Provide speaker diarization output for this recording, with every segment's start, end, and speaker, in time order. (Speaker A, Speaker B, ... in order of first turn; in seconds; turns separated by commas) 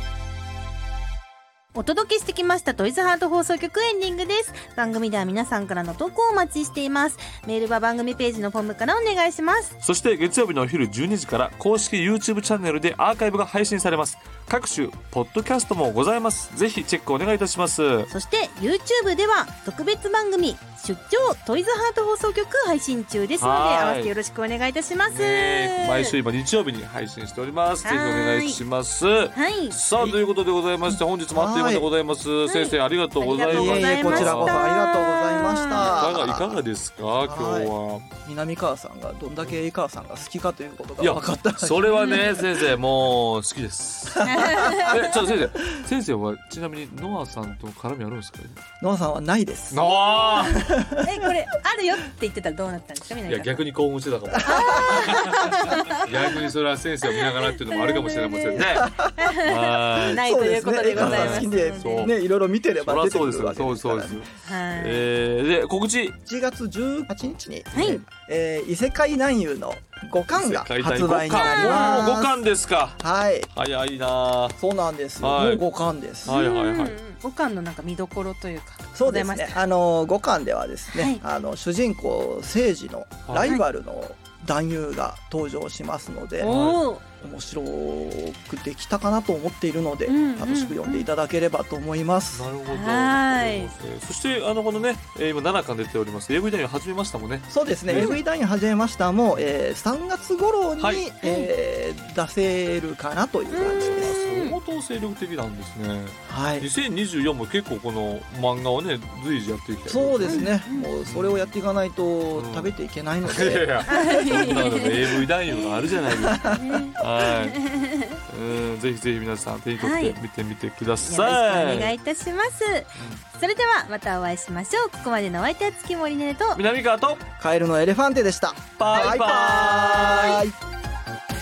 Speaker A: 1.7-9.7, Speaker B: 9.8-18.1, Speaker A: 18.1-26.1, Speaker B: 23.4-24.1, Speaker B: 25.1-34.6, Speaker A: 27.8-28.6, Speaker A: 29.3-29.8, Speaker C: 30.9-31.9, Speaker A: 32.5-36.1, Speaker C: 33.5-36.6, Speaker B: 35.7-38.1, Speaker C: 37.2-42.0, Speaker B: 41.0-48.6, Speaker A: 41.9-42.5, Speaker C: 44.1-45.0, Speaker A: 44.2-45.3, Speaker C: 48.8-51.5, Speaker B: 49.7-50.6, Speaker A: 50.3-53.5, Speaker B: 53.3-60.2, Speaker C: 54.3-55.8, Speaker A: 54.5-56.4, Speaker A: 57.0-62.1, Speaker C: 58.6-59.3, Speaker C: 60.1-64.2, Speaker B: 60.9-62.1, Speaker B: 62.8-66.2, Speaker A: 64.4-65.1, Speaker C: 66.2-72.4, Speaker B: 67.7-68.0, Speaker A: 67.7-68.0, Speaker B: 70.3-73.0, Speaker A: 71.3-72.1, Speaker C: 73.0-73.5, Speaker B: 73.5-74.6, Speaker C: 74.6-76.4, Speaker B: 75.2-75.6, Speaker B: 76.2-77.0, Speaker A: 76.2-79.6, Speaker C: 78.9-86.5, Speaker A: 80.9-81.2, Speaker B: 83.3-83.5, Speaker A: 86.4-87.0, Speaker B: 86.4-86.8, Speaker C: 87.2-92.5, Speaker A: 90.0-91.1, Speaker B: 92.3-98.2, Speaker A: 92.7-93.7, Speaker C: 97.5-104.1, Speaker A: 97.9-98.2, Speaker B: 100.8-101.0, Speaker A: 101.2-101.5, Speaker A: 103.5-104.6, Speaker B: 103.7-110.5, Speaker C: 106.2-106.7, Speaker C: 109.9-113.9, Speaker A: 110.3-110.9, Speaker B: 111.0-111.5, Speaker B: 112.3-117.6, Speaker A: 113.9-115.8, Speaker C: 116.2-116.8, Speaker A: 116.4-118.2, Speaker B: 118.3-121.9, Speaker A: 119.8-120.2, Speaker A: 121.0-126.6, Speaker B: 123.0-123.2, Speaker B: 126.5-127.2, Speaker C: 127.4-130.6, Speaker B: 128.8-130.4, Speaker A: 130.0-130.4